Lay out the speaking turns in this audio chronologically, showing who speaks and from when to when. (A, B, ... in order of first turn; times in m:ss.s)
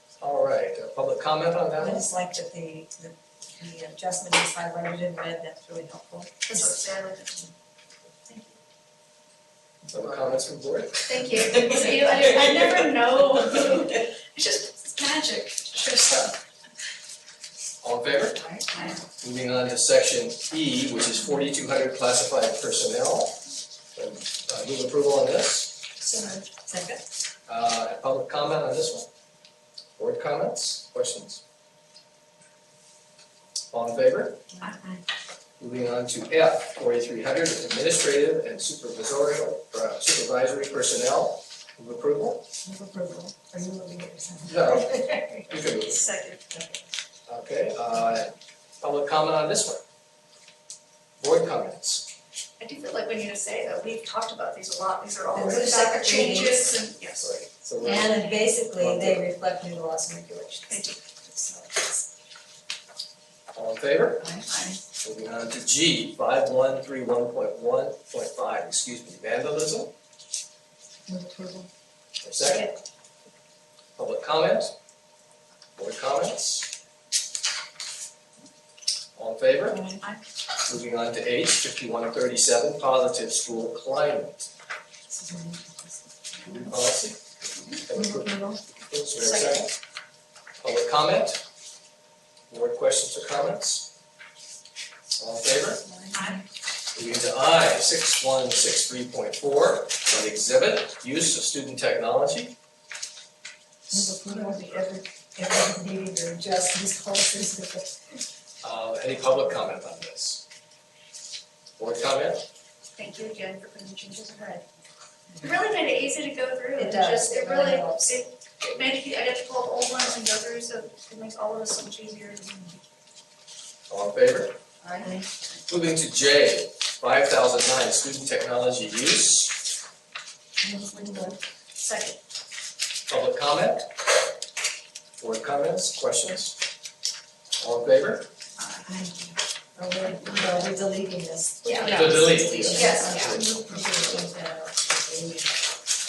0:00.2-0:02.0 A
0:01.8-0:06.7 B
0:06.5-0:07.5 C
0:09.9-0:11.1 A
0:11.1-0:16.4 C
0:17.8-0:18.4 A
0:18.4-0:18.9 B
0:19.2-0:23.4 A
0:24.0-0:25.8 A
0:26.0-0:26.5 C
0:26.6-0:27.0 B
0:27.5-0:29.1 A
0:30.0-0:31.4 A
0:33.7-0:34.4 A
0:35.6-0:42.4 A
0:42.6-0:45.5 B
0:44.4-0:46.0 A
0:45.8-0:46.4 C
0:46.5-0:46.8 B
0:47.3-0:49.8 A
0:51.2-0:52.1 A
0:52.6-0:57.3 C
0:55.3-0:56.6 B
0:57.2-0:58.2 A
0:57.8-1:02.1 B
0:58.8-0:59.2 A
1:00.7-1:01.0 C
1:03.5-1:04.2 A
1:04.2-1:04.6 B
1:04.5-1:04.8 C
1:05.0-1:09.9 A
1:11.1-1:11.7 B
1:12.2-1:12.7 A
1:12.4-1:12.7 B
1:14.0-1:14.7 A
1:15.8-1:16.7 A
1:19.2-1:19.8 A
1:19.7-1:20.0 B
1:20.7-1:24.5 A
1:25.1-1:26.7 B
1:26.5-1:27.2 A
1:27.9-1:29.7 A
1:28.0-1:28.6 B
1:29.2-1:29.5 C
1:30.6-1:31.4 A
1:32.5-1:33.9 A
1:35.2-1:35.8 A
1:35.8-1:36.3 B
1:36.9-1:42.6 A
1:43.9-1:48.0 B
1:48.6-1:50.4 A
1:51.8-1:52.4 A
1:53.0-1:54.6 C
1:55.4-2:02.8 C
1:56.8-1:58.1 B
2:03.9-2:04.6 A
2:04.8-2:05.2 B
2:05.7-2:09.6 A
2:10.6-2:11.4 B
2:11.8-2:12.2 C
2:13.1-2:13.9 A
2:15.2-2:16.6 A
2:17.6-2:18.3 A
2:18.6-2:18.9 C
2:18.8-2:25.7 B
2:21.7-2:23.4 C
2:21.8-2:23.4 A